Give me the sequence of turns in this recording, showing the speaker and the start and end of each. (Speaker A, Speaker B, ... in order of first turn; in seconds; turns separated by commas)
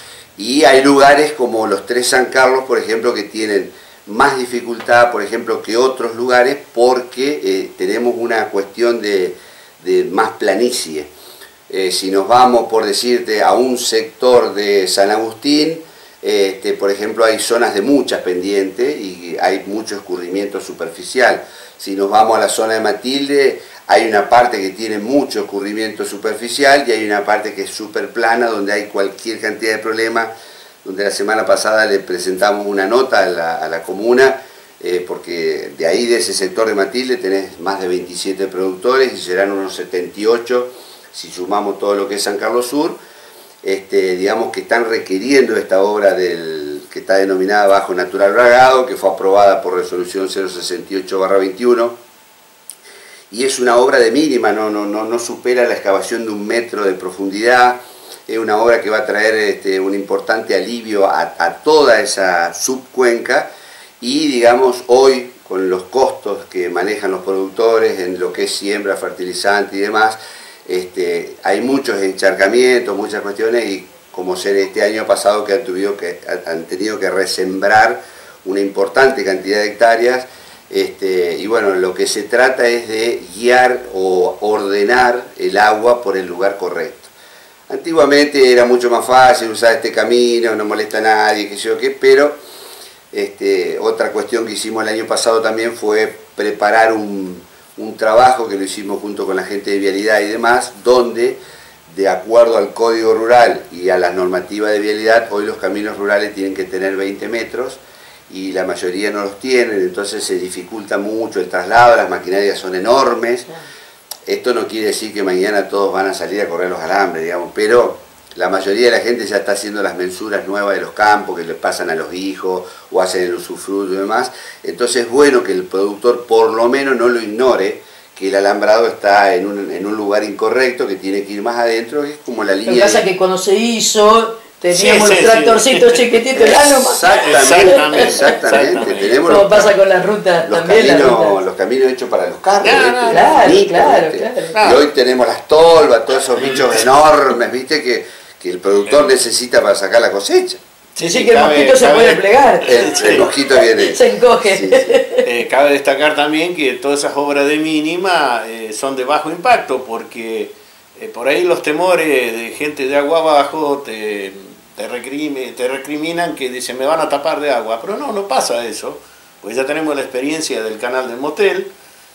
Speaker A: 0.4-11.1, Speaker A: 11.7-30.3, Speaker A: 30.8-43.0, Speaker A: 43.6-52.0, Speaker A: 53.3-63.5, Speaker A: 64.0-87.1, Speaker A: 87.7-92.4, Speaker A: 93.1-113.5, Speaker A: 114.3-133.0, Speaker B: 132.7-138.3, Speaker C: 134.7-136.1, Speaker A: 136.3-139.7, Speaker C: 137.1-139.3, Speaker B: 139.2-141.4, Speaker A: 140.4-150.6, Speaker C: 142.6-143.5, Speaker B: 143.1-144.6, Speaker C: 144.5-144.8, Speaker C: 146.4-146.9, Speaker C: 150.9-153.3, Speaker B: 151.0-155.3, Speaker A: 152.6-154.9, Speaker C: 155.2-171.7